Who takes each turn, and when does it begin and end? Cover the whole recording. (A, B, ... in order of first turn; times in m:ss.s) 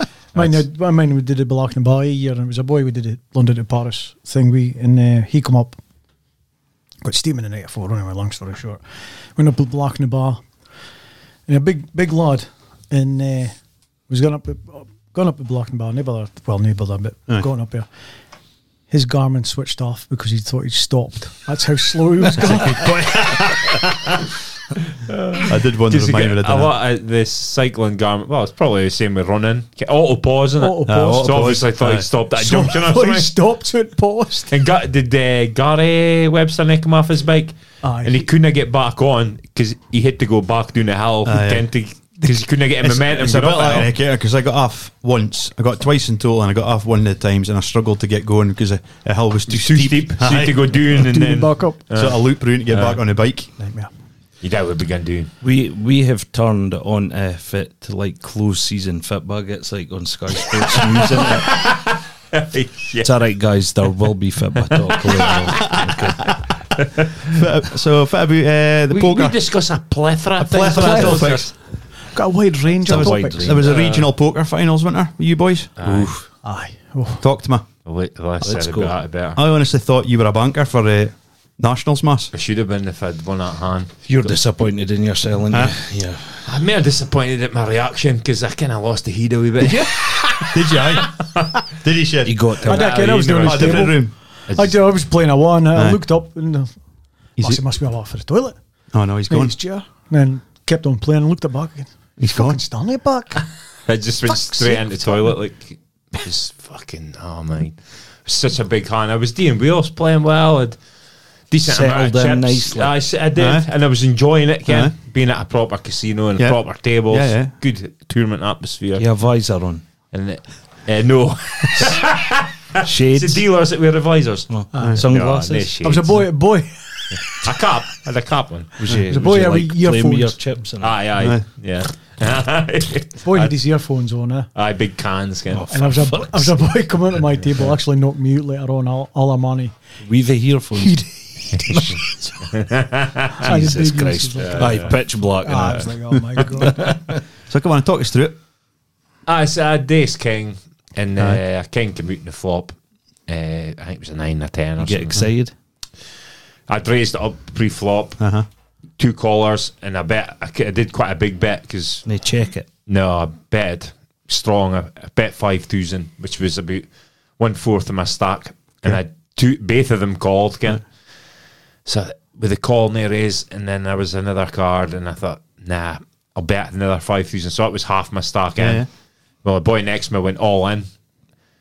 0:00.3-0:00.6 A
0:00.3-0:05.8 B
0:07.0-0:08.8 B
0:09.3-0:10.4 B
0:11.5-0:13.6 B
0:14.1-0:17.9 B
0:18.9-0:22.9 B
0:22.5-0:23.3 C
0:22.7-0:23.8 A
0:25.1-0:33.3 A
0:25.4-0:26.7 C
0:30.6-0:31.5 B
0:30.8-0:32.1 C
0:32.4-0:34.5 B
0:34.5-0:43.9 A
0:37.8-0:38.3 B
0:41.2-0:41.7 C
0:42.8-0:51.3 C
0:49.5-0:53.0 A
0:51.0-0:51.8 B
0:51.9-0:53.5 C
0:53.6-0:53.9 B
0:54.4-0:55.3 A
0:55.4-1:01.6 D
1:00.7-1:03.1 A
1:03.0-1:06.3 D
1:04.7-1:07.3 A
1:07.3-1:09.4 C
1:08.9-1:11.6 A
1:10.4-1:11.5 C
1:10.7-1:11.4 B
1:12.1-1:13.4 B
1:12.8-1:16.1 C
1:12.9-1:13.7 D
1:12.9-1:14.1 A
1:15.8-1:16.1 A
1:15.9-1:16.2 D
1:16.4-1:17.2 B
1:17.2-1:17.6 C
1:17.8-1:19.4 A
1:18.4-1:18.9 D
1:19.3-1:22.3 C
1:22.3-1:24.3 A
1:24.0-1:26.4 D
1:26.4-1:31.5 A
1:30.4-1:31.1 C
1:31.6-1:32.4 C
1:32.2-1:32.9 D
1:32.6-1:34.8 A
1:32.6-1:36.7 B
1:33.4-1:34.1 C
1:35.7-1:36.0 C
1:37.4-1:37.6 C
1:37.4-1:38.6 B
1:38.9-1:39.6 C
1:39.3-1:43.4 B
1:42.2-1:42.6 C
1:43.9-1:50.8 A
1:44.3-1:45.2 B
1:51.5-1:59.0 A
1:51.6-1:52.9 D
1:53.4-1:53.6 C
1:54.7-1:54.9 C
1:56.4-1:57.5 C
1:59.0-1:59.8 D
2:00.1-2:06.2 A
2:02.8-2:03.4 D
2:04.5-2:05.7 D
2:04.7-2:05.0 B
2:05.8-2:07.4 B
2:07.4-2:08.7 A
2:08.8-2:11.0 D
2:09.1-2:10.4 B
2:10.8-2:13.5 A
2:11.2-2:11.4 C
2:13.2-2:14.5 B
2:14.5-2:15.6 A
2:15.5-2:16.6 D
2:15.7-2:19.8 B
2:20.0-2:21.1 D
2:20.8-2:22.5 B
2:21.6-2:22.0 D
2:22.5-2:23.6 A
2:23.4-2:26.9 B
2:23.4-2:25.9 D
2:24.4-2:25.0 A
2:26.6-2:27.2 D
2:27.5-2:28.4 C
2:29.3-2:32.7 A
2:33.3-2:35.2 A
2:34.8-2:35.5 D
2:36.7-2:38.2 A
2:38.2-2:38.5 C
2:39.0-2:42.0 A
2:42.0-2:42.7 D
2:42.9-2:46.9 A
2:47.4-2:50.8 A
2:51.8-2:58.9 A
2:58.6-2:58.9 C
2:59.4-3:00.9 A